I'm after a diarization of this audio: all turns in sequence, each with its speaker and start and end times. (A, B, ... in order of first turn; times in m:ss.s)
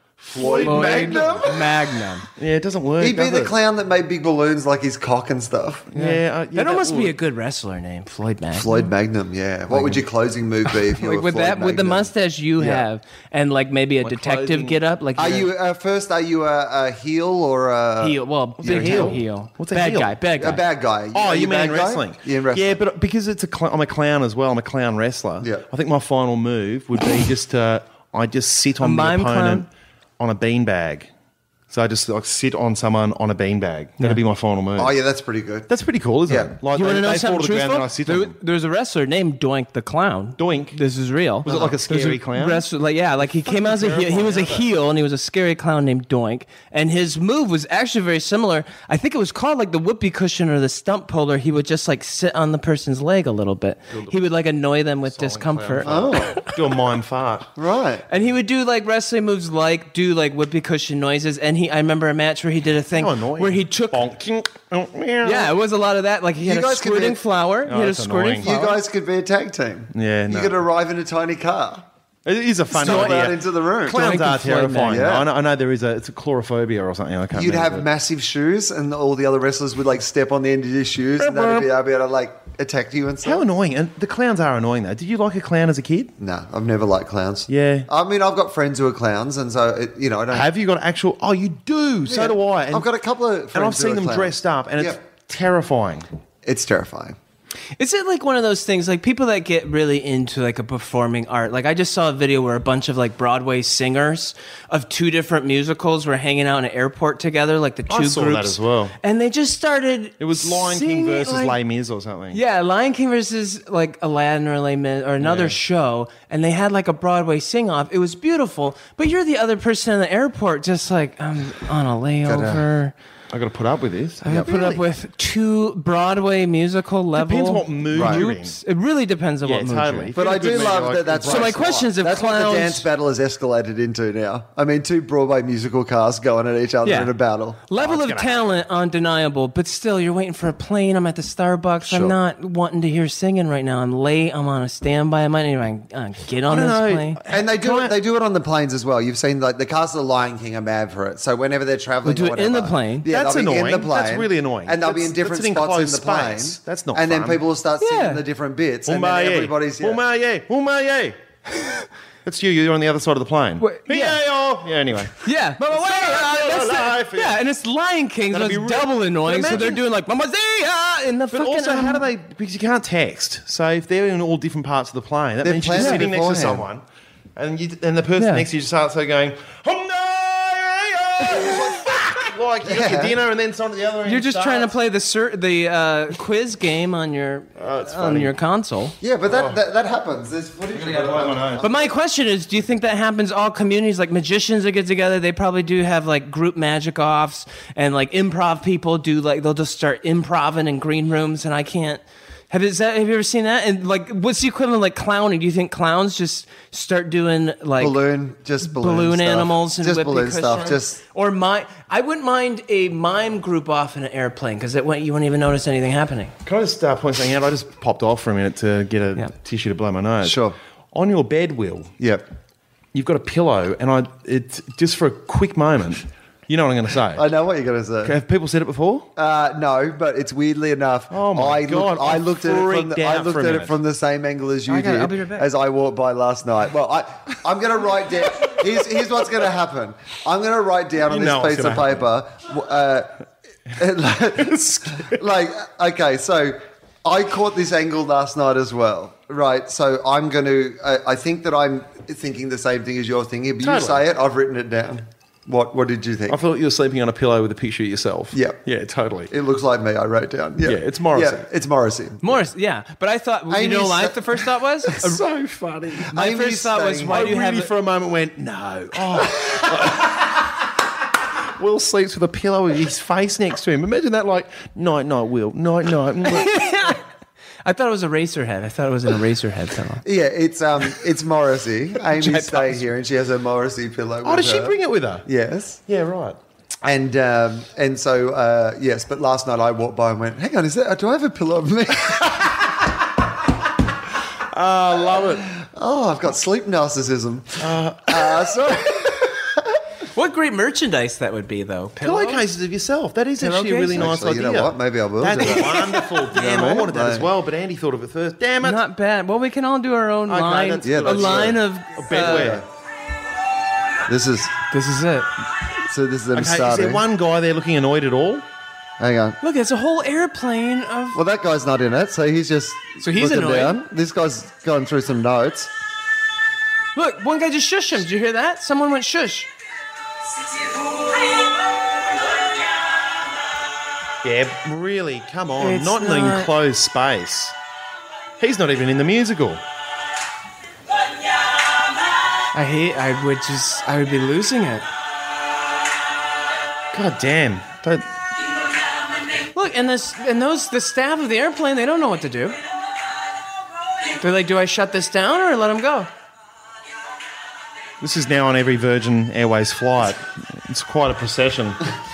0:00.2-0:01.5 A
0:00.3-0:01.8 B
0:00.6-0:02.3 C
0:02.4-0:03.5 A
0:03.0-0:05.9 B
0:05.9-0:07.2 A
0:05.9-0:08.9 C
0:08.5-0:12.8 B
0:10.9-0:15.5 C
0:14.0-0:14.8 A
0:15.2-0:19.2 B
0:18.0-0:20.6 C
0:18.6-0:20.1 A
0:20.4-0:22.8 B
0:21.1-0:29.7 A
0:28.8-0:29.6 C
0:30.2-0:31.1 A
0:31.7-0:35.0 A
0:34.8-0:35.7 B
0:35.7-0:38.3 A
0:36.3-0:36.5 B
0:36.7-0:56.5 C
0:40.4-0:40.8 A
0:41.4-0:42.6 A
0:43.4-0:44.7 A
0:53.9-0:54.2 A
0:55.1-0:57.5 A
0:55.8-0:56.4 B
0:57.6-0:58.0 B
0:58.1-1:04.0 C
1:03.0-1:05.5 A
1:05.2-1:08.8 C
1:06.4-1:07.2 B
1:07.6-1:08.5 A
1:08.4-1:11.8 B
1:09.9-1:10.6 A
1:12.2-1:17.8 A
1:12.7-1:14.1 B
1:12.8-1:13.2 C
1:13.8-1:15.1 C
1:14.8-1:15.3 B
1:17.3-1:23.4 B
1:21.2-1:21.7 A
1:23.2-1:26.1 A
1:26.2-1:30.5 B
1:27.5-1:27.9 A
1:30.3-1:32.9 A
1:32.0-1:35.0 B
1:33.5-1:36.0 A
1:36.4-1:37.2 B
1:37.8-1:51.6 C
1:47.9-1:48.9 A
1:50.2-1:52.4 A
1:52.3-2:02.9 C
1:55.2-1:55.6 A
2:02.2-2:02.6 B
2:03.3-2:04.8 A
2:04.2-2:10.1 C
2:07.1-2:08.6 A
2:07.9-2:08.2 B
2:09.4-2:11.6 A
2:10.1-2:17.6 B
2:11.2-2:12.9 C
2:16.8-2:17.1 C
2:17.7-2:27.2 C
2:17.8-2:18.4 A
2:21.8-2:22.2 B
2:26.5-2:27.9 A
2:27.3-2:40.0 B
2:32.0-2:33.1 C
2:33.1-2:37.4 A
2:37.8-2:38.2 C
2:38.9-2:41.2 A
2:42.2-2:47.4 A
2:43.6-2:44.2 C
2:45.1-2:52.0 C
2:48.3-2:49.8 A
2:51.3-2:56.8 A
2:55.4-2:56.6 B
2:57.4-3:04.8 A
2:58.2-2:58.4 C
3:02.6-3:03.2 B
3:04.0-3:09.0 C
3:07.6-3:08.3 A
3:09.0-3:11.8 B
3:09.3-3:09.6 A
3:10.7-3:11.6 A
3:11.6-3:28.0 C
3:27.8-3:31.0 B
3:28.6-3:36.3 C
3:36.4-3:41.9 A
3:40.2-3:40.6 B
3:42.0-3:42.2 B
3:42.9-3:47.2 A
3:47.1-3:48.1 B
3:48.0-3:49.1 A
3:49.2-4:03.1 B
3:51.1-3:53.8 A
3:54.7-3:55.4 C
4:01.1-4:02.0 A
4:03.7-4:16.4 B
4:04.5-4:05.1 A
4:13.6-4:14.0 A
4:16.3-4:19.3 A
4:18.3-4:18.6 B
4:19.3-4:22.2 B
4:20.6-4:21.4 A
4:22.2-4:25.2 C
4:23.5-4:24.5 B
4:25.0-4:26.1 A
4:26.0-4:27.2 B
4:26.1-4:27.7 C
4:27.1-4:30.5 A
4:31.6-4:36.6 A
4:36.2-4:37.0 C
4:37.6-4:40.0 C
4:40.0-4:45.8 B
4:42.2-4:42.8 A
4:44.2-4:45.2 A
4:45.9-4:46.4 A
4:46.8-4:52.6 B
4:54.4-4:55.5 A
4:55.4-4:59.6 B
4:57.6-4:58.5 A
5:00.0-5:02.4 C
5:02.0-5:08.8 A
5:03.4-5:04.1 C
5:03.9-5:07.3 B
5:05.7-5:06.0 C
5:08.6-5:12.6 C
5:10.3-5:12.6 A
5:10.8-5:11.6 B
5:12.1-5:12.6 B
5:14.1-5:14.6 B
5:14.7-5:15.3 C
5:15.9-5:17.0 B
5:16.3-5:18.4 A
5:19.0-5:19.4 B
5:19.4-5:21.2 C
5:21.1-5:25.7 B
5:23.0-5:23.8 C
5:26.9-5:29.5 C
5:34.2-5:37.5 A
5:35.6-5:36.5 C
5:38.4-5:39.6 A
5:42.5-5:44.9 C
5:46.9-5:48.0 A
5:49.5-5:52.6 C
5:54.2-5:56.1 C
5:58.0-6:01.9 A